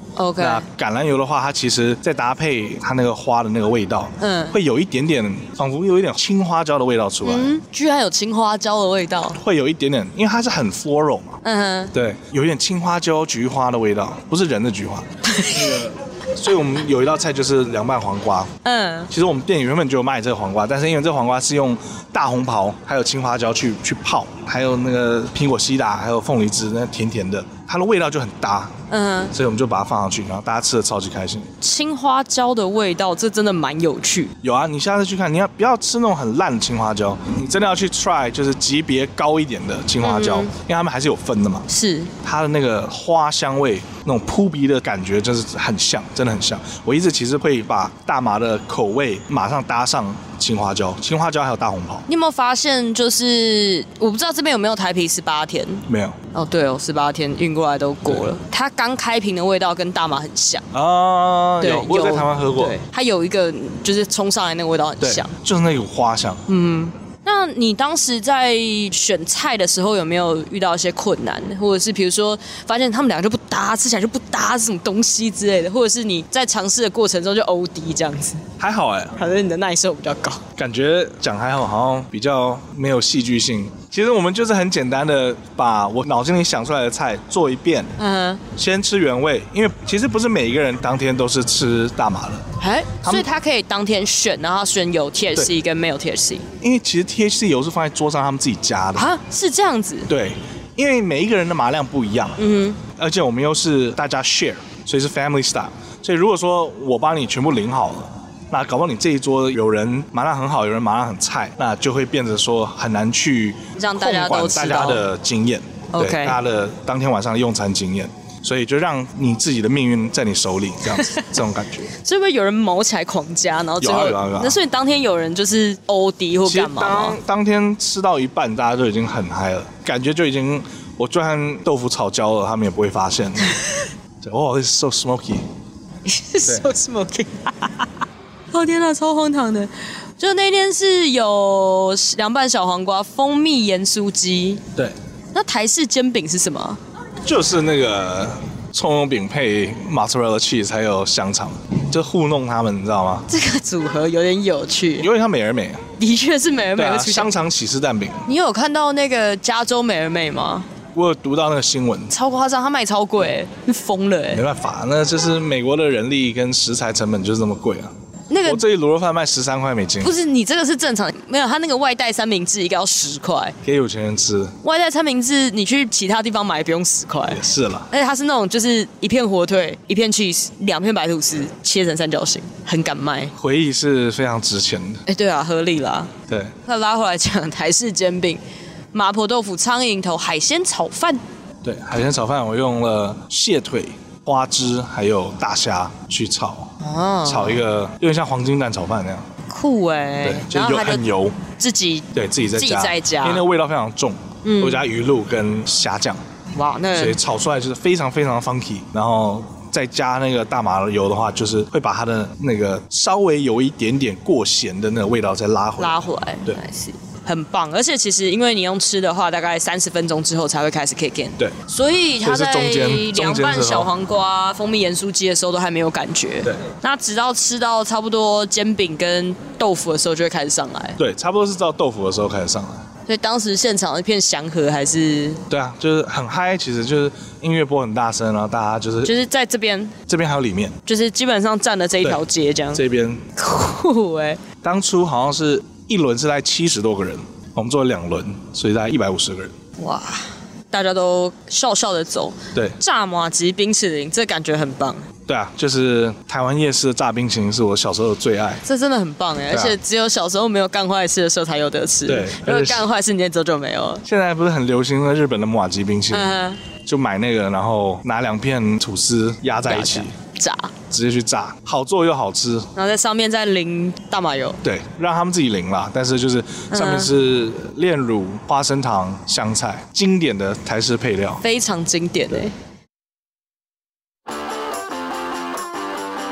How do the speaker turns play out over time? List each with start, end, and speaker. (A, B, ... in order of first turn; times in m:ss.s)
0:00.2-0:00.6 A
0:00.4-0:07.5 B
0:04.2-0:04.6 A
0:07.2-0:09.4 A
0:09.4-0:11.4 B
0:11.4-0:11.9 A
0:11.9-0:18.5 B
0:15.3-0:15.8 A
0:18.6-0:19.1 A
0:19.1-0:28.8 B
0:28.9-0:29.3 A
0:29.3-0:31.5 B
0:31.6-0:34.3 A
0:34.4-0:41.7 B
0:40.0-0:40.5 A
0:41.7-0:42.1 A
0:42.2-0:52.1 B
0:52.1-1:00.7 A
0:55.9-0:56.2 B
1:00.7-1:02.8 B
1:01.6-1:05.3 A
1:05.0-1:06.4 B
1:06.5-1:18.4 A
1:18.6-1:19.2 B
1:19.2-1:20.4 A
1:20.6-1:27.9 B
1:28.0-1:28.4 A
1:28.5-1:32.5 B
1:32.6-1:36.5 A
1:36.6-1:39.1 B
1:39.0-1:40.1 A
1:40.1-2:01.9 B
1:42.4-1:42.8 A
1:53.8-1:55.0 A
1:55.9-1:56.4 A
2:01.0-2:01.3 A
2:02.0-2:07.2 A
2:03.8-2:04.6 B
2:06.4-2:13.6 B
2:14.2-2:15.5 B
2:16.1-2:17.9 A
2:18.5-2:24.6 A
2:25.3-2:26.8 A
2:27.2-2:33.3 B
2:33.3-2:35.1 A
2:35.0-2:35.8 B
2:36.0-2:37.3 A
2:36.8-2:38.3 B
2:38.3-2:40.7 A
2:40.9-2:42.1 B
2:42.1-2:44.4 A
2:44.3-2:47.9 B
2:48.3-2:48.6 A
2:48.4-2:50.1 B
2:50.0-2:53.6 A
2:53.6-2:54.6 B
2:54.6-3:03.3 A
2:57.3-2:57.9 B
3:03.4-3:05.0 B
3:05.1-3:06.1 A
3:06.6-3:08.4 A
3:08.9-3:11.2 A
3:11.6-3:16.7 B
3:16.8-3:17.6 A
3:17.2-3:19.3 B
3:19.5-3:23.4 A
3:20.2-3:21.4 B
3:22.1-3:26.2 B
3:24.4-3:24.8 A
3:26.5-3:27.2 A
3:26.9-3:36.6 B
3:35.8-3:51.0 A
3:42.2-3:43.9 B
3:51.0-3:52.8 B
3:53.1-3:55.4 A
3:55.5-3:59.1 B
3:59.0-4:00.0 A
4:00.1-4:00.8 B
4:00.9-4:02.8 A
4:02.7-4:03.2 B
4:03.4-4:04.4 A
4:04.6-4:09.5 B
4:09.8-4:15.0 A
4:15.3-4:18.6 B
4:18.6-4:24.0 A
4:19.5-4:19.8 B
4:22.1-4:22.9 B
4:24.0-4:26.3 B
4:26.1-4:26.6 A
4:26.8-4:30.1 B
4:29.6-4:30.7 A
4:30.9-4:32.7 B
4:32.8-4:34.6 A
4:34.6-4:41.4 B
4:36.7-4:37.1 A
4:41.4-4:42.5 A